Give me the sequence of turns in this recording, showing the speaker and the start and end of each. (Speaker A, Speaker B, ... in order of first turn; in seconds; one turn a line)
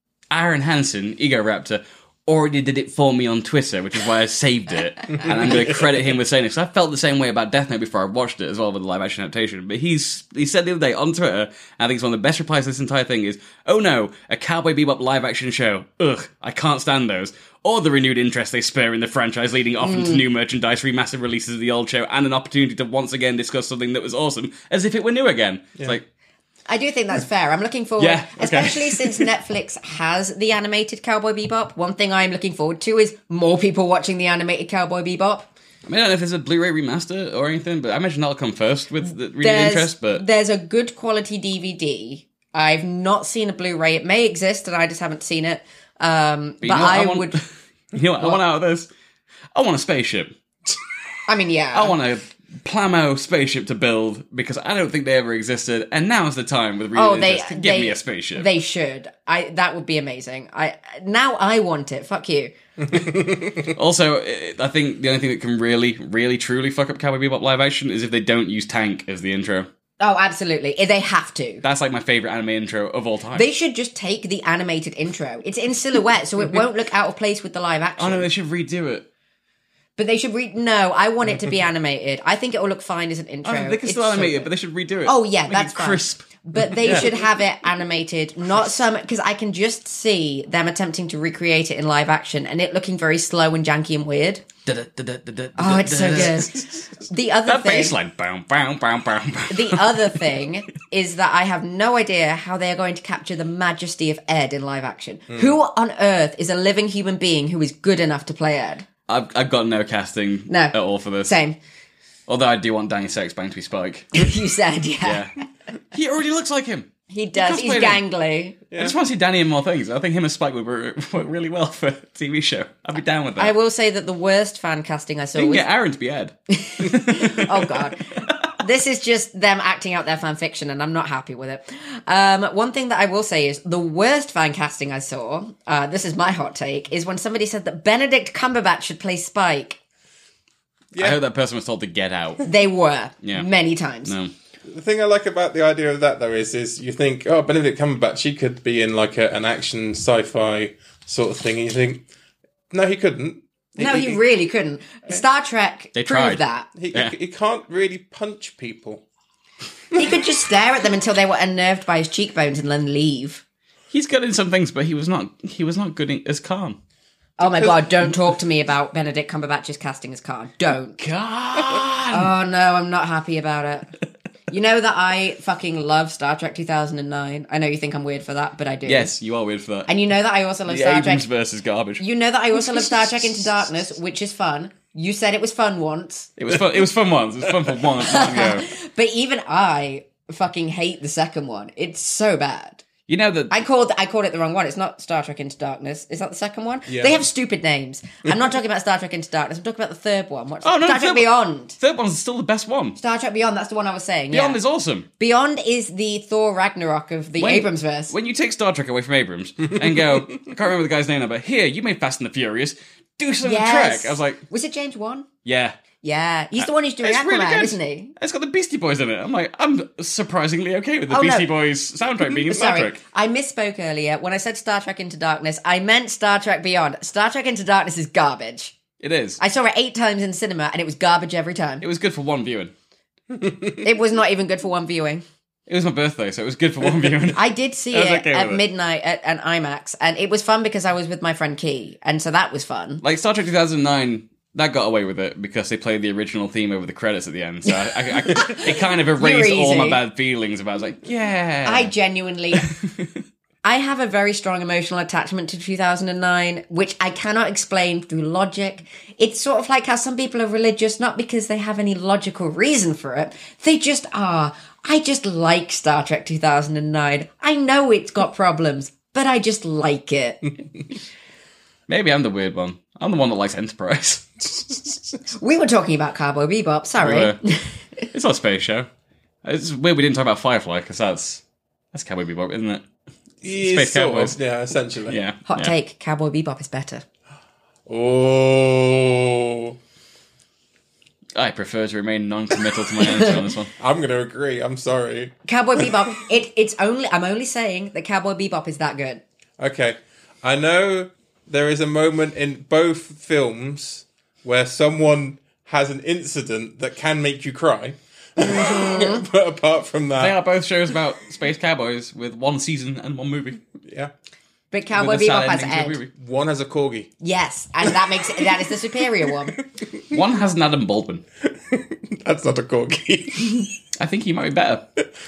Speaker A: 0.3-26.1
Speaker B: 19.8-20.2
Speaker B: 26.7-35.5
Speaker A: 28.0-29.3
Speaker A: 35.9-40.2
Speaker B: 39.4-47.4
Speaker A: 46.6-48.9
Speaker A: 49.5-50.8
Speaker B: 51.3-52.0
Speaker A: 51.7-58.5
Speaker B: 56.9-62.5
Speaker C: 62.9-63.7
Speaker A: 63.7-69.7
Speaker B: 70.0-71.6
Speaker A: 71.6-73.5
Speaker B: 73.3-78.3
Speaker A: 78.0-79.1
Speaker B: 80.0-84.5
Speaker A: 83.5-87.2
Speaker B: 85.0-94.5
Speaker A: 94.7-96.9
Speaker B: 95.6-98.0
Speaker A: 97.5-100.3
Speaker B: 99.5-108.9
Speaker C: 105.3-105.6
Speaker A: 109.1-111.4
Speaker B: 110.5-111.6
Speaker A: 112.3-114.2
Speaker B: 114.1-115.3
Speaker A: 115.0-115.4
Speaker A: 115.9-118.0
Speaker B: 117.1-118.6
Speaker C: 118.7-119.0
Speaker A: 118.8-123.5
Speaker B: 123.4-125.7
Speaker A: 125.3-127.8
Speaker B: 126.5-139.8
Speaker C: 140.9-141.2
Speaker A: 141.0-142.4
Speaker B: 142.4-144.1
Speaker A: 143.2-143.5
Speaker A: 144.1-144.3
Speaker C: 144.7-152.0
Speaker C: 152.7-154.2
Speaker B: 153.8-156.7
Speaker A: 155.9-157.1
Speaker C: 156.8-159.0
Speaker B: 159.9-163.4
Speaker A: 163.9-166.8
Speaker B: 167.4-171.0
Speaker C: 167.4-168.2
Speaker A: 171.0-172.3
Speaker B: 172.1-173.9
Speaker B: 174.5-179.1
Speaker A: 178.9-179.9
Speaker B: 179.9-181.3
Speaker A: 180.7-182.0
Speaker B: 182.0-186.3
Speaker A: 182.7-183.4
Speaker A: 186.4-188.7
Speaker B: 188.0-192.8
Speaker A: 193.1-193.5
Speaker B: 193.5-201.8
Speaker C: 196.9-197.2
Speaker A: 200.6-203.0
Speaker B: 203.0-204.6
Speaker A: 204.3-205.1
Speaker B: 205.2-208.1
Speaker A: 207.4-214.4
Speaker B: 213.4-215.3
Speaker A: 215.4-215.8
Speaker B: 216.0-218.1
Speaker A: 216.6-223.0
Speaker B: 221.1-221.5
Speaker B: 222.4-228.8
Speaker A: 229.0-229.4
Speaker B: 229.4-231.8
Speaker A: 231.8-232.7
Speaker B: 233.8-235.2
Speaker A: 235.7-238.6
Speaker B: 237.3-243.0
Speaker A: 243.0-251.9
Speaker B: 247.7-250.0
Speaker B: 251.7-252.7
Speaker A: 252.7-253.1
Speaker B: 253.6-270.5
Speaker A: 271.9-274.9
Speaker B: 275.4-277.8
Speaker A: 277.0-277.4
Speaker A: 278.1-278.9
Speaker A: 279.4-282.9
Speaker C: 283.4-285.2
Speaker A: 283.5-284.4
Speaker A: 285.1-285.7
Speaker B: 285.5-287.1
Speaker C: 287.9-289.8
Speaker A: 291.4-293.7
Speaker C: 293.8-295.3
Speaker B: 295.5-299.2
Speaker C: 299.6-310.4
Speaker B: 308.4-309.2
Speaker A: 310.2-313.6
Speaker C: 313.8-314.1
Speaker B: 314.7-316.0
Speaker A: 314.9-316.1
Speaker C: 316.1-317.1
Speaker B: 317.2-319.6
Speaker A: 320.1-321.2
Speaker C: 321.7-323.7
Speaker A: 324.0-324.9